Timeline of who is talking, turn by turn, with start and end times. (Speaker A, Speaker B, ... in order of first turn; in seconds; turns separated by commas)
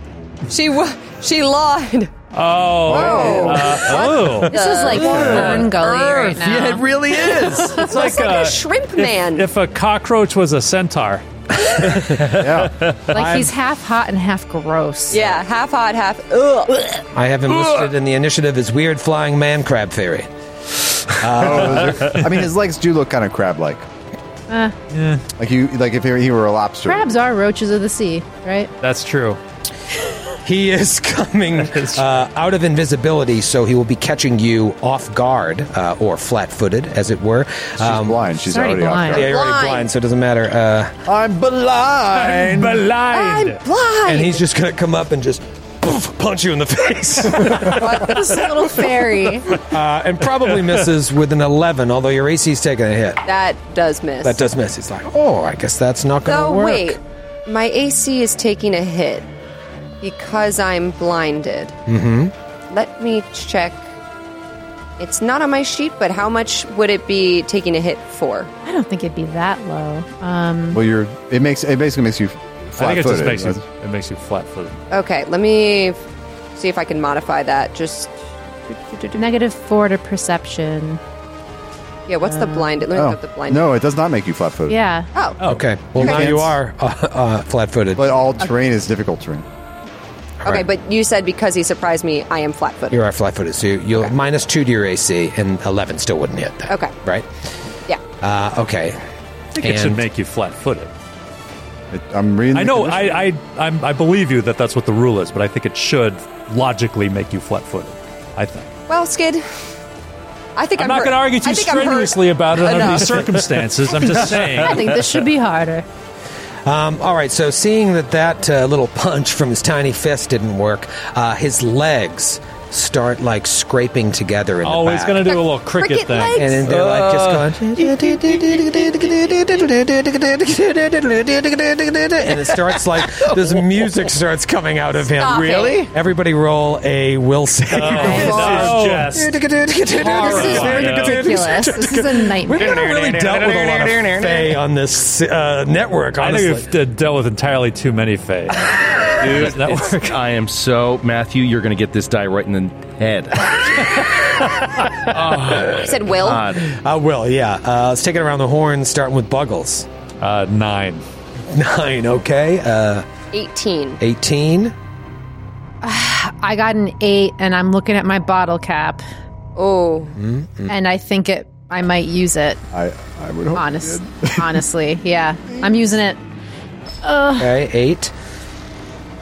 Speaker A: 0.5-2.2, Speaker B: 2.3-5.7, Speaker C: 2.9-3.8, Speaker A: 2.9-6.6, Speaker D: 4.5-6.8, Speaker C: 4.9-5.6, Speaker E: 6.3-7.8, Speaker A: 7.3-9.4, Speaker B: 7.7-11.2, Speaker F: 11.9-12.4, Speaker C: 12.3-12.7, Speaker E: 12.6-13.0, Speaker F: 13.1-13.5, Speaker D: 13.1-15.2, Speaker A: 15.1-17.0, Speaker F: 17.1-20.3, Speaker E: 17.5-17.9, Speaker F: 21.0-22.1, Speaker C: 21.3-23.8, Speaker B: 22.1-22.4, Speaker D: 24.5-24.7, Speaker B: 24.9-25.2, Speaker C: 25.4-27.1, Speaker D: 26.9-28.7, Speaker B: 28.8-29.4, Speaker F: 30.4-38.2, Speaker B: 31.6-32.0, Speaker C: 37.8-39.3, Speaker D: 38.4-39.3, Speaker F: 39.0-40.9, Speaker A: 39.1-39.9, Speaker C: 41.0-42.9, Speaker B: 42.1-43.6, Speaker A: 43.1-44.5, Speaker F: 44.0-47.9, Speaker A: 47.6-48.7, Speaker D: 47.8-49.6, Speaker F: 49.6-53.2, Speaker B: 50.5-50.8, Speaker A: 53.2-54.4, Speaker F: 54.2-57.0, Speaker A: 56.2-59.2, Speaker A: 60.0-61.8, Speaker F: 61.9-62.3, Speaker A: 62.7-63.8, Speaker A: 65.0-68.5, Speaker D: 68.6-70.8, Speaker C: 70.7-73.6, Speaker B: 72.8-74.8, Speaker A: 74.9-76.0, Speaker A: 76.5-78.1, Speaker A: 78.7-79.2, Speaker D: 79.1-81.0, Speaker A: 82.1-83.7, Speaker D: 82.2-82.7, Speaker C: 82.9-84.8, Speaker D: 84.7-85.1, Speaker A: 85.1-85.4, Speaker B: 85.4-85.7, Speaker F: 85.4-88.2, Speaker C: 85.9-86.5, Speaker A: 86.0-86.3, Speaker C: 88.0-89.4, Speaker A: 90.4-93.0, Speaker F: 92.9-97.3, Speaker A: 96.7-96.9, Speaker F: 98.2-99.0, Speaker B: 99.5-100.9, Speaker F: 99.6-100.0, Speaker C: 101.9-103.2, Speaker B: 102.5-108.7, Speaker A: 108.9-109.4, Speaker A: 110.5-113.4, Speaker B: 110.7-115.0, Speaker E: 114.0-114.5, Speaker D: 114.5-115.8, Speaker F: 116.6-125.3, Speaker B: 124.6-126.5, Speaker A: 125.3-126.7, Speaker F: 126.4-146.7, Speaker E: 126.6-128.6, Speaker E: 132.5-133.9, Speaker A: 135.0-135.9, Speaker B: 137.7-139.4, Speaker E: 137.9-139.2, Speaker B: 140.0-141.3, Speaker D: 140.0-142.8, Speaker E: 142.5-144.6, Speaker B: 146.2-150.2, Speaker E: 149.2-154.1, Speaker E: 155.1-156.7, Speaker F: 155.2-155.7, Speaker A: 155.7-156.5, Speaker F: 156.6-159.9, Speaker B: 160.2-161.0, Speaker F: 161.5-163.0, Speaker A: 163.3-164.0, Speaker F: 164.0-164.7, Speaker D: 165.8-169.0, Speaker A: 169.6-170.2, Speaker F: 170.2-170.7, Speaker D: 170.7-172.6, Speaker C: 172.7-174.6, Speaker D: 173.5-176.2, Speaker D: 177.0-177.6, Speaker F: 177.4-178.1